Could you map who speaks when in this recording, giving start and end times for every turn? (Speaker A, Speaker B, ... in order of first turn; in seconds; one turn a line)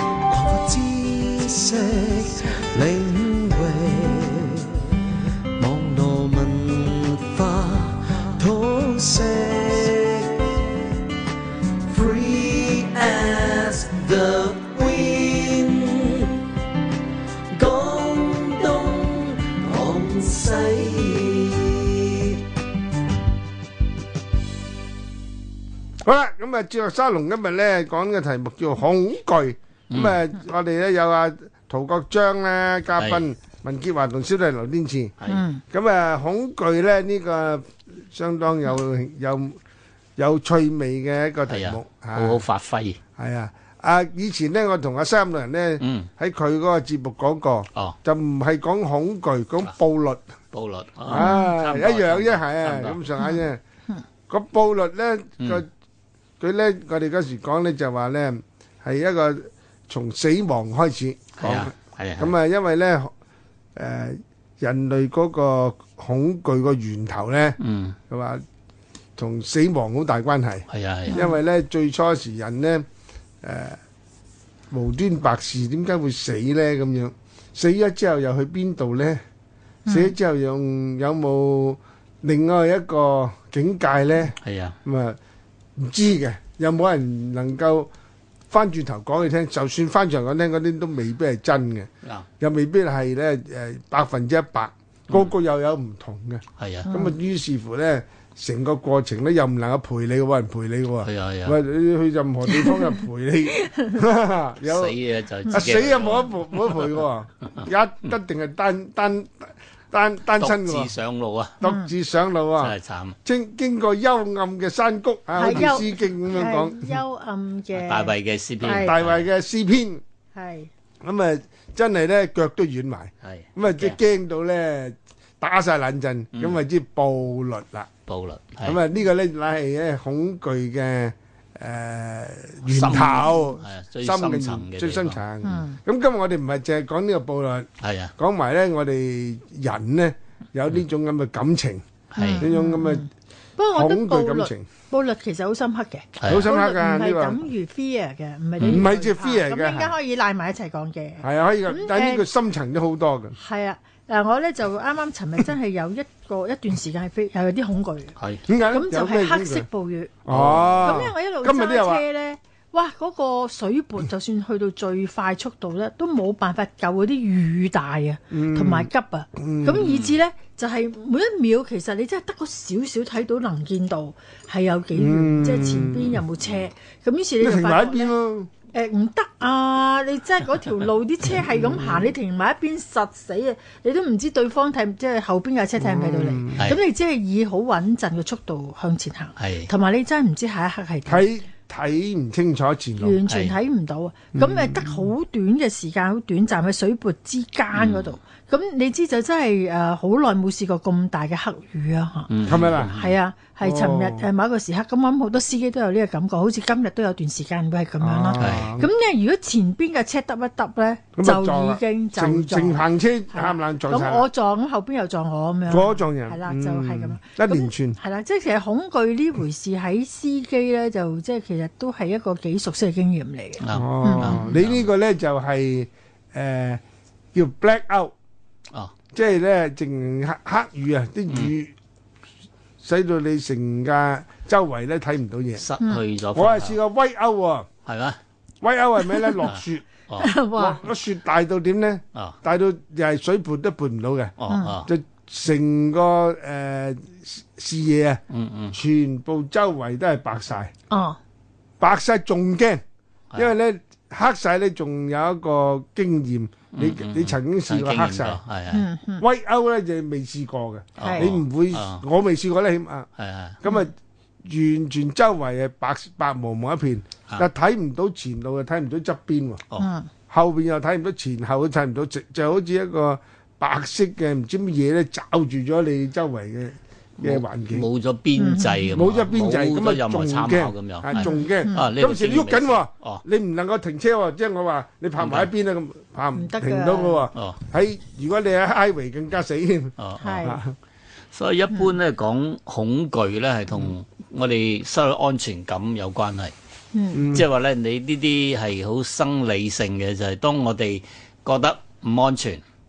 Speaker A: 0.3-4.7
Speaker A: 5.6-10.7
Speaker A: 11.8-16.4
Speaker A: 17.5-22.4
Speaker B: 26.0-35.1
Speaker C: 29.9-30.2
Speaker C: 33.0-33.2
Speaker D: 35.3-35.6
Speaker B: 35.7-39.6
Speaker B: 40.2-42.4
Speaker C: 41.5-43.0
Speaker B: 43.2-50.2
Speaker C: 45.8-46.1
Speaker C: 50.5-53.0
Speaker B: 51.0-53.6
Speaker D: 51.1-51.5
Speaker B: 54.3-55.7
Speaker B: 56.4-63.1
Speaker C: 61.4-62.3
Speaker B: 63.8-67.6
Speaker C: 67.6-68.0
Speaker B: 68.1-68.4
Speaker B: 69.2-72.8
Speaker C: 70.7-71.2
Speaker D: 71.1-71.3
Speaker B: 73.4-73.8
Speaker B: 74.7-79.2
Speaker D: 79.8-80.1
Speaker B: 79.9-85.2
Speaker C: 84.4-84.8
Speaker B: 85.8-87.9
Speaker B: 88.5-91.9
Speaker B: 92.4-105.0
Speaker C: 96.6-96.9
Speaker D: 96.9-97.2
Speaker C: 101.0-101.5
Speaker D: 102.5-103.0
Speaker D: 103.6-103.9
Speaker C: 104.6-107.0
Speaker B: 105.5-110.9
Speaker C: 110.4-111.5
Speaker B: 111.6-117.0
Speaker D: 111.6-111.9
Speaker C: 112.6-113.2
Speaker D: 115.3-118.9
Speaker C: 115.4-115.8
Speaker C: 117.7-119.3
Speaker B: 118.7-120.0
Speaker D: 120.3-120.7
Speaker B: 121.0-127.9
Speaker C: 123.2-124.0
Speaker C: 126.3-126.6
Speaker C: 128.1-128.8
Speaker B: 128.6-141.8
Speaker C: 132.7-135.2
Speaker D: 135.4-135.8
Speaker C: 137.8-138.1
Speaker C: 142.1-142.5
Speaker D: 142.2-152.2
Speaker B: 142.4-143.1
Speaker B: 143.7-144.7
Speaker C: 146.2-146.5
Speaker B: 146.2-147.4
Speaker C: 148.6-148.8
Speaker B: 148.6-149.9
Speaker B: 151.2-153.3
Speaker D: 153.4-158.1
Speaker C: 158.2-158.4
Speaker B: 158.5-159.7
Speaker D: 158.7-160.2
Speaker B: 160.2-162.0
Speaker C: 160.3-161.0
Speaker D: 160.8-178.1
Speaker B: 168.3-169.9
Speaker C: 169.8-170.2
Speaker B: 174.9-176.2
Speaker B: 177.4-178.5
Speaker D: 178.7-191.3
Speaker B: 181.3-182.1
Speaker B: 185.8-186.7
Speaker C: 189.4-189.7
Speaker B: 191.1-193.2
Speaker D: 193.0-224.6
Speaker C: 193.3-193.5
Speaker B: 194.3-195.1
Speaker C: 197.7-198.1
Speaker C: 202.3-203.1
Speaker B: 202.4-202.9
Speaker B: 203.6-204.3
Speaker B: 208.0-208.9
Speaker C: 208.4-208.7
Speaker B: 211.2-214.3
Speaker B: 215.7-218.0
Speaker C: 223.6-224.9
Speaker B: 223.7-226.8
Speaker B: 227.3-228.1
Speaker B: 229.1-231.7
Speaker B: 232.8-235.6
Speaker C: 235.6-236.8
Speaker B: 236.3-237.7
Speaker C: 237.8-238.2
Speaker B: 238.6-239.9
Speaker D: 239.0-239.4
Speaker C: 239.4-240.3
Speaker D: 240.2-240.8
Speaker B: 240.5-244.3
Speaker C: 244.4-244.9
Speaker D: 244.5-244.8
Speaker B: 244.8-248.2
Speaker C: 248.3-248.8
Speaker B: 248.7-250.7
Speaker D: 250.9-251.2
Speaker B: 251.8-252.8
Speaker B: 253.3-258.4
Speaker C: 256.7-258.9
Speaker D: 258.7-259.2
Speaker B: 259.2-263.1
Speaker C: 261.0-262.0
Speaker D: 261.0-261.3
Speaker C: 263.2-263.6
Speaker B: 263.6-263.9
Speaker B: 264.4-269.6
Speaker D: 269.8-270.1
Speaker B: 270.3-277.9
Speaker C: 277.2-283.2
Speaker D: 278.4-278.9
Speaker B: 278.9-290.7
Speaker D: 281.2-281.9
Speaker C: 285.2-285.5
Speaker D: 286.3-287.2
Speaker C: 287.3-287.6
Speaker C: 290.0-290.4
Speaker D: 290.2-290.6
Speaker C: 291.3-296.5
Speaker D: 296.9-297.3
Speaker B: 297.1-297.4
Speaker C: 297.3-302.6